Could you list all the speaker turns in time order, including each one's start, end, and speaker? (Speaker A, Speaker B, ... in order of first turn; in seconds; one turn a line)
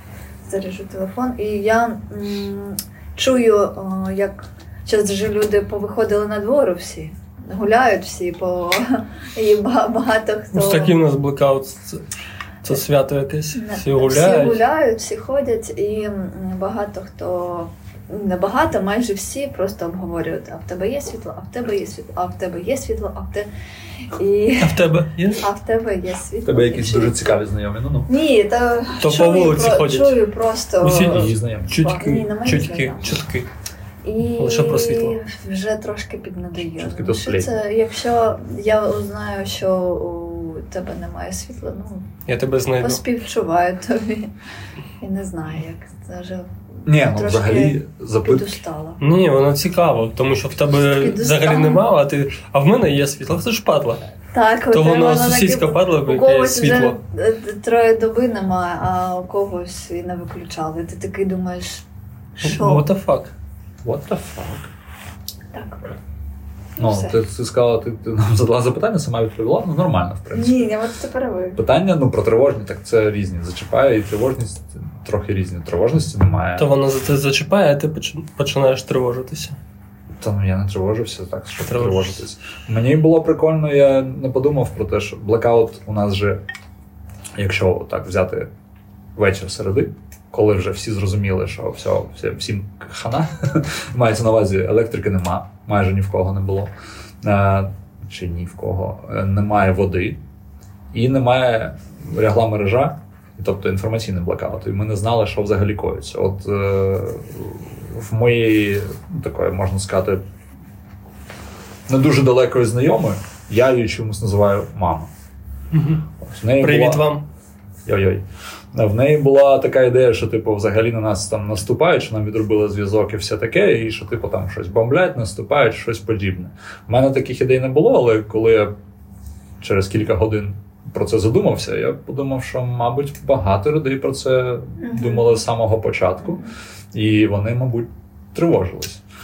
Speaker A: 0.5-11.0
Speaker B: 10.5-12.0
Speaker B: 12.6-14.6
Speaker A: 13.5-23.5
Speaker A: 24.1-27.3
Speaker B: 24.6-25.4
Speaker C: 26.4-28.1
Speaker A: 28.1-33.1
Speaker B: 29.0-30.2
Speaker B: 30.8-33.5
Speaker C: 31.0-31.8
Speaker A: 34.0-42.1
Speaker B: 34.4-35.2
Speaker C: 36.7-37.5
Speaker B: 42.3-43.0
Speaker A: 42.8-44.3
Speaker A: 45.0-49.0
Speaker C: 46.9-48.6
Speaker B: 49.0-54.0
Speaker A: 50.9-51.8
Speaker A: 54.3-61.9
Speaker B: 54.7-57.0
Speaker A: 62.4-62.9
Speaker B: 62.4-63.3
Speaker C: 63.8-64.7
Speaker A: 65.5-66.0
Speaker A: 66.8-67.2
Speaker C: 66.8-70.7
Speaker A: 70.3-71.6
Speaker C: 71.6-76.7
Speaker B: 76.6-79.6
Speaker C: 80.2-86.4
Speaker B: 81.7-82.2
Speaker C: 87.4-88.5
Speaker C: 89.2-100.2
Speaker C: 100.9-110.2
Speaker C: 111.9-115.1
Speaker B: 115.7-116.0
Speaker C: 116.2-117.0
Speaker B: 116.6-117.2
Speaker C: 117.9-128.7
Speaker C: 129.6-136.4
Speaker A: 134.8-135.4
Speaker C: 136.9-139.0